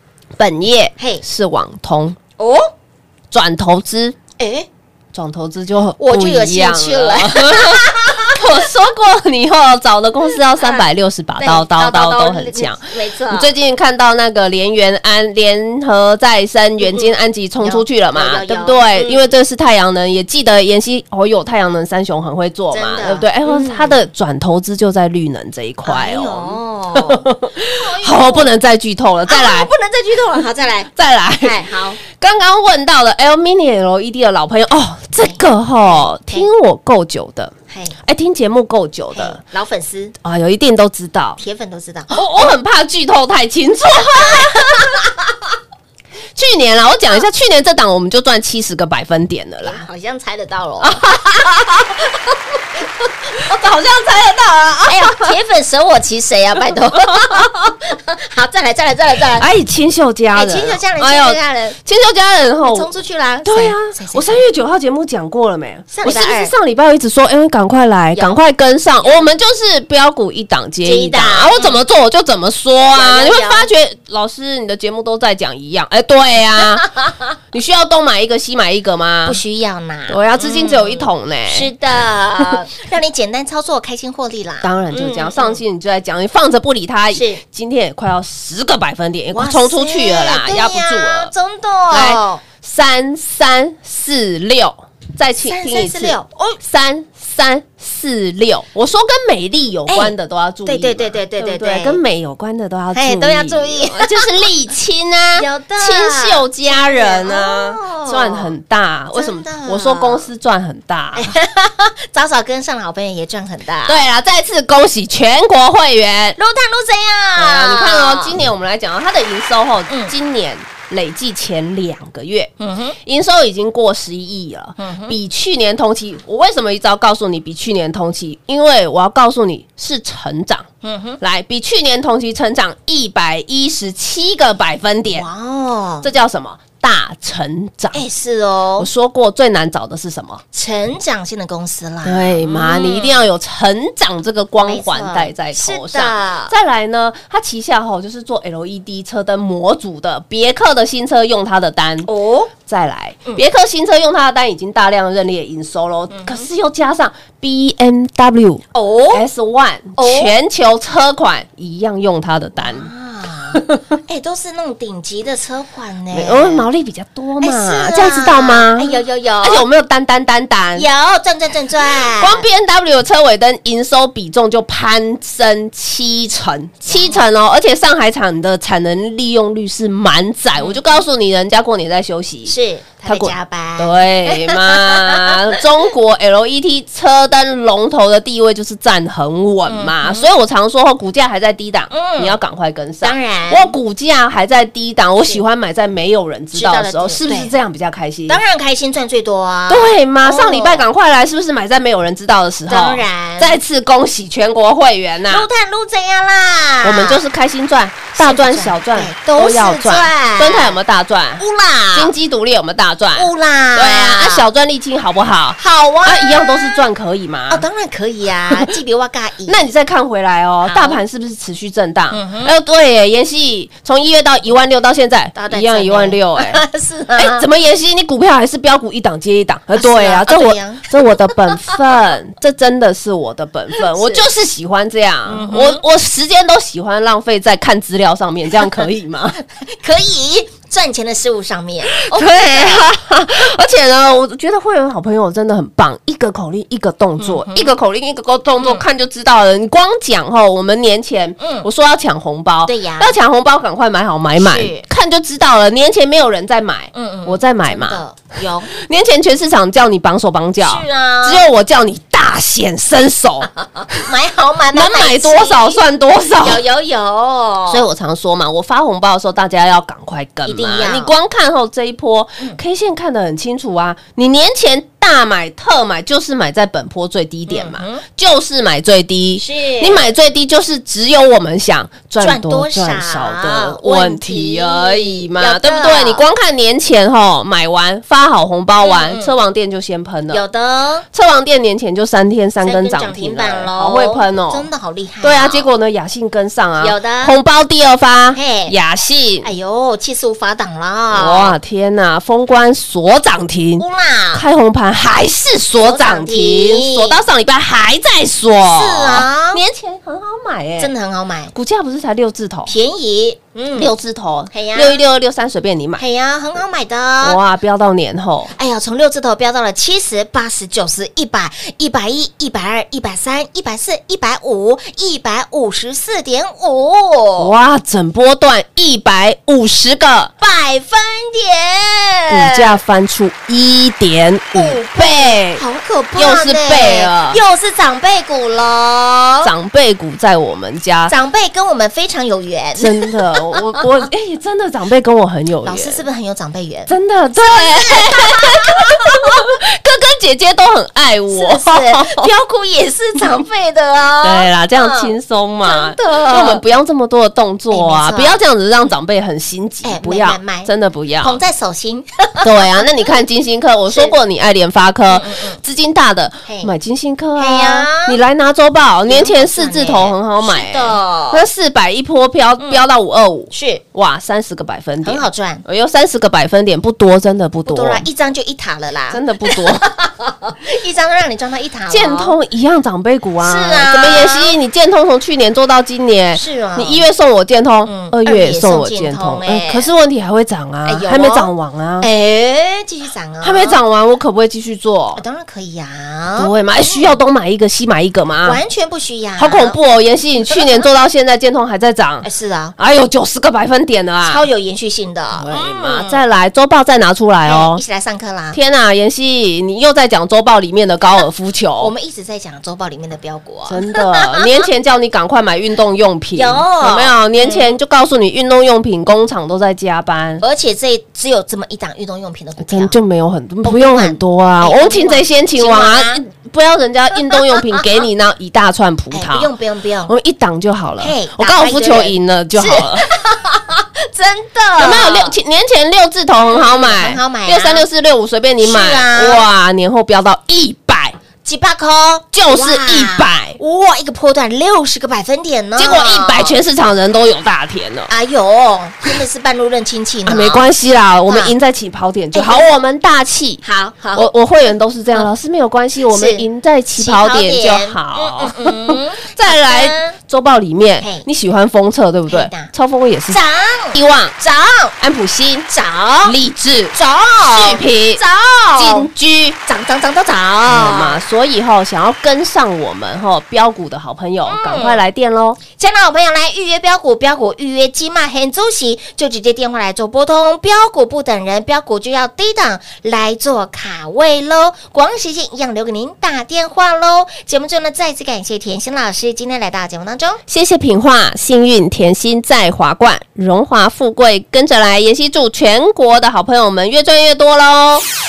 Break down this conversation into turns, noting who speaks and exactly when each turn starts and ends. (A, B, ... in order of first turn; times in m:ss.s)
0:00.4-0:02.2 A
0:02.4-0:02.7 B
0:03.3-0:04.2 A
0:04.4-0:04.7 B
0:05.1-0:29.7 A
0:06.0-0:08.4 B
0:10.6-0:10.8 B
0:11.4-0:13.5 B
0:16.8-0:19.3 B
0:22.7-0:24.0 B
0:25.8-0:28.5 B
0:29.3-0:32.0 B
0:31.0-0:37.5 A
0:35.2-0:36.5 B
0:37.7-0:38.0 B
0:38.0-0:39.4 A
0:39.1-0:40.1 B
0:40.2-0:41.4 A
0:41.4-0:42.2 B
0:42.1-0:45.1 A
0:44.1-0:45.2 B
0:46.4-0:49.8 A
0:49.6-0:51.2 B
0:50.8-0:51.9 A
0:52.1-0:52.3 B
0:53.3-0:53.6 B
0:53.4-0:55.3 A
0:54.9-0:59.5 B
0:57.0-0:57.5 A
0:59.3-1:02.9 A
1:00.3-1:01.8 B
1:02.6-1:04.4 B
1:03.4-1:16.9 A
1:05.9-1:06.5 B
1:08.1-1:08.4 B
1:09.0-1:09.3 B
1:10.8-1:11.8 B
1:12.9-1:13.7 B
1:17.5-1:19.4 A
1:19.2-1:25.6 B
1:20.1-1:21.7 A
1:24.6-1:31.3 A
1:27.1-1:27.4 B
1:29.3-1:32.4 B
1:31.9-1:51.3 A
1:35.4-1:36.6 B
1:39.9-1:40.1 B
1:40.6-1:42.0 B
1:42.9-1:44.5 B
1:45.3-1:48.5 B
1:49.1-1:50.3 B
1:51.2-1:54.0 B
1:53.8-1:56.4 A
1:56.4-1:58.4 B
1:57.4-2:02.5 A
1:59.9-2:00.1 B
2:02.6-2:03.0 B
2:03.0-2:10.7 A
2:04.8-2:05.2 B
2:10.8-2:11.2 B
2:11.2-2:15.3 A
2:15.1-2:16.1 B
2:16.0-2:18.0 A
2:17.9-2:18.9 B
2:18.8-2:20.4 A
2:20.5-2:23.2 B
2:22.0-2:32.1 A
2:24.6-2:26.5 B
2:32.0-2:32.5 B
2:32.6-2:42.9 A
2:36.1-2:36.5 B
2:38.7-2:39.2 B
2:40.0-2:40.3 B
2:42.6-2:46.7 B
2:43.5-2:43.8 A
2:46.1-2:50.9 A
2:47.4-2:49.7 B
2:50.7-2:52.4 B
2:52.1-3:02.5 A
2:56.8-2:57.2 B
3:00.6-3:00.9 B
3:02.5-3:05.6 B
3:03.1-3:18.4 A
3:09.7-3:10.3 B
3:11.9-3:12.4 B
3:13.0-3:13.7 B
3:16.5-3:17.5 B
3:18.3-3:20.8 B
3:19.7-3:25.5 A
3:22.7-3:23.6 B
3:25.3-3:27.2 B
3:26.8-3:37.6 A
3:28.1-3:30.8 B
3:31.4-3:32.1 B
3:33.2-3:34.5 B
3:35.6-3:36.8 B
3:37.5-3:39.6 B
3:39.5-3:46.6 A
3:40.6-3:41.0 B
3:42.1-3:42.5 B
3:45.3-3:47.5 B
3:47.1-3:59.4 A
3:49.7-3:50.9 B
3:53.8-3:54.2 B
3:55.3-3:55.8 B
3:59.6-4:02.9 B
4:02.0-4:18.0 A
4:07.2-4:07.7 B
4:11.4-4:11.7 B
4:12.6-4:13.2 B
4:14.4-4:14.8 B
4:16.9-4:18.7 B
4:18.7-4:24.0 A
4:20.6-4:21.4 B
4:23.6-4:25.8 B
4:24.7-4:26.6 A
4:26.4-4:27.9 B
4:27.7-4:50.4 A
4:30.4-4:31.1 B
4:37.5-4:38.0 B
4:39.4-4:40.1 B
4:42.2-4:46.2 B
4:48.8-4:49.3 B
4:50.3-4:51.0 B
4:51.1-4:54.7 A
4:52.6-4:55.7 B
4:55.2-4:59.5 A
4:56.8-4:57.4 B
4:58.3-4:58.7 B
4:59.4-5:01.6 B
5:01.1-5:10.9 A
5:03.8-5:04.4 B
5:05.8-5:07.2 B
5:08.6-5:09.6 B
5:10.8-5:11.5 B
5:11.5-5:12.7 A
5:12.7-5:13.9 B
5:13.7-5:16.0 A
5:14.5-5:15.0 B
5:16.0-5:17.4 B
5:17.2-5:18.5 A
5:18.5-5:27.5 B
5:27.4-5:30.3 A
5:30.4-5:32.8 B
5:32.3-5:35.6 A
5:34.5-5:39.5 B
5:36.2-5:37.4 A
5:39.4-5:41.1 A
5:41.1-5:43.8 B
5:42.8-5:46.0 A
5:45.6-5:49.4 B
5:46.9-5:52.3 A
5:51.3-5:56.6 B
5:54.2-6:01.4 A
5:57.7-5:58.4 B
5:59.8-6:03.1 B
6:02.4-6:18.1 A
6:03.9-6:04.2 B
6:05.1-6:05.6 B
6:06.5-6:06.7 B
6:07.4-6:08.2 B
6:09.0-6:11.4 B
6:12.6-6:12.9 B
6:13.5-6:13.8 B
6:15.0-6:15.6 B
6:17.6-6:22.4 B
6:19.1-6:19.9 A
6:21.9-6:32.1 A
6:23.4-6:24.6 B
6:26.3-6:27.0 B
6:27.8-6:29.9 B
6:30.8-6:33.8 B
6:33.4-6:35.2 A
6:35.2-6:37.2 B
6:36.4-6:38.6 A
6:38.4-6:39.8 B
6:39.4-6:42.3 A
6:42.2-6:42.7 B
6:42.8-6:44.4 A
6:44.2-6:46.2 B
6:45.3-6:47.8 A
6:47.4-6:48.6 B
6:48.5-6:51.9 A
6:51.8-6:54.6 B
6:53.7-7:00.4 A
6:56.3-6:57.8 B
7:00.4-7:03.0 B
7:02.6-7:09.5 A
7:03.6-7:06.2 B
7:07.3-7:07.8 B
7:09.1-7:10.1 B
7:10.1-7:13.1 A
7:11.0-7:15.4 B
7:14.8-7:21.2 A
7:16.5-7:17.8 B
7:18.6-7:19.5 B
7:21.4-7:26.6 B
7:22.3-7:23.6 A
7:25.8-7:28.1 A
7:28.1-7:30.7 B
7:30.2-7:33.6 A
7:31.3-7:31.5 B
7:32.3-7:32.7 B
7:33.6-7:34.3 B
7:34.1-7:43.4 A
7:36.0-7:40.2 B
7:41.0-7:41.3 B
7:42.3-7:42.7 B
7:43.3-7:44.9 B
7:43.9-7:44.4 A
7:45.0-7:45.7 A
7:45.7-7:46.4 B
7:46.2-7:48.2 A
7:46.9-7:49.1 B
7:48.8-7:49.6 A
7:49.6-7:51.2 B
7:50.6-7:55.6 A
7:54.4-7:55.0 B
7:55.7-8:10.4 B
8:10.5-8:18.0 A